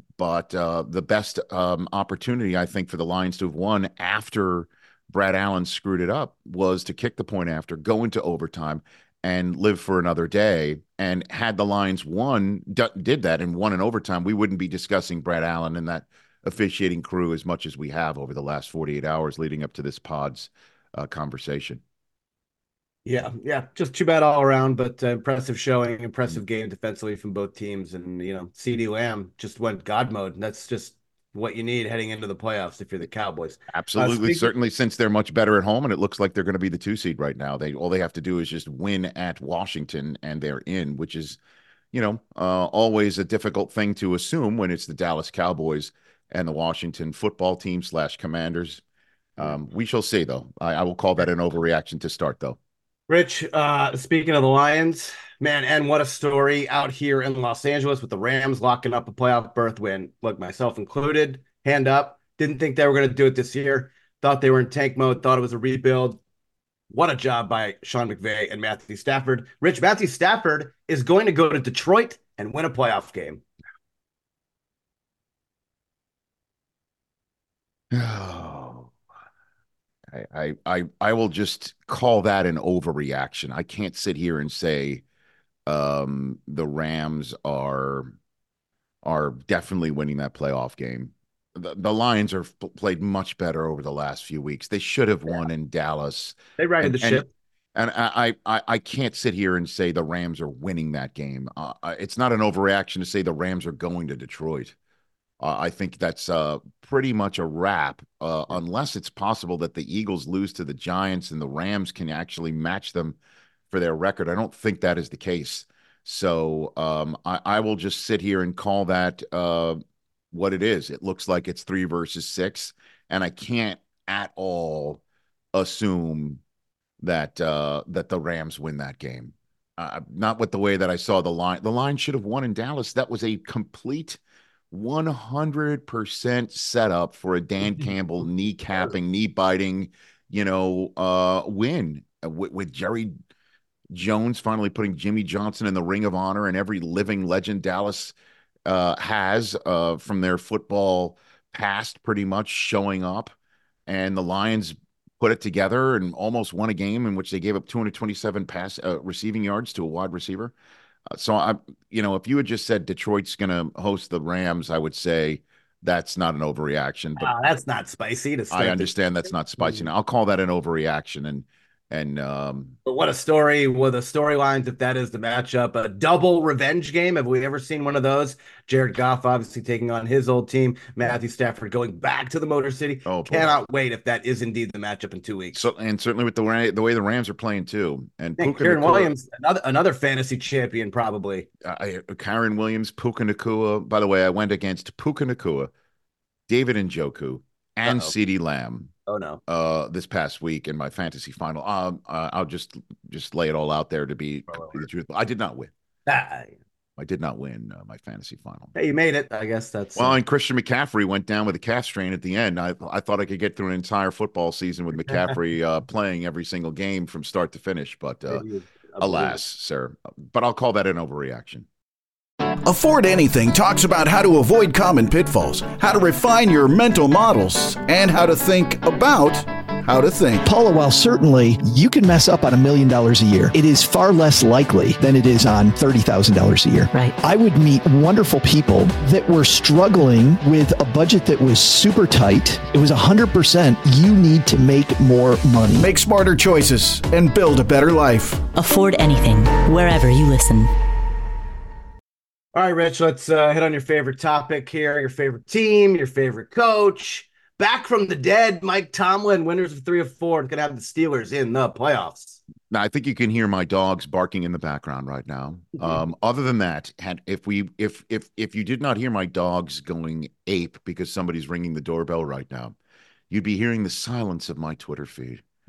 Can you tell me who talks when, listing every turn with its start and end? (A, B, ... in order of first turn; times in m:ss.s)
0:00.2-0:21.8 A
0:23.0-0:34.5 B
0:33.7-0:41.4 A
0:41.9-0:48.8 A
0:49.4-0:52.6 A
0:53.1-1:06.2 B
1:06.9-1:13.4 B
1:17.9-1:18.9 A
1:20.1-1:25.0 A
1:25.7-1:28.2 A
1:29.0-1:37.2 A
1:36.6-1:37.3 B
1:37.7-1:44.7 A
1:45.4-1:53.2 A
1:53.7-1:59.8 A
2:00.3-2:05.0 A
2:05.5-2:06.4 A
2:07.0-2:14.2 A
2:14.7-2:23.1 A
2:23.9-2:28.1 A
2:28.7-2:33.3 A
2:33.9-2:40.5 A
2:41.1-2:47.3 A
2:47.2-2:48.9 B
2:48.5-2:52.8 A
2:52.8-3:05.6 B
3:03.0-3:03.6 A
3:05.5-3:09.1 A
3:08.4-3:11.5 B
3:11.6-3:15.7 A
3:16.5-3:18.9 A
3:17.8-3:18.1 B
3:19.1-3:19.4 B
3:19.5-3:25.7 A
3:24.5-3:24.8 B
3:26.0-3:26.6 B
3:27.0-3:28.7 A
3:28.7-3:30.2 B
3:30.0-3:38.4 A
3:38.3-3:39.4 B
3:39.0-3:41.7 A
3:42.6-3:50.4 C
3:50.4-4:05.9 D
4:05.8-4:08.4 C
4:08.7-4:10.6 E
4:12.5-4:22.4 B
4:22.7-4:32.7 A
4:33.3-4:35.4 A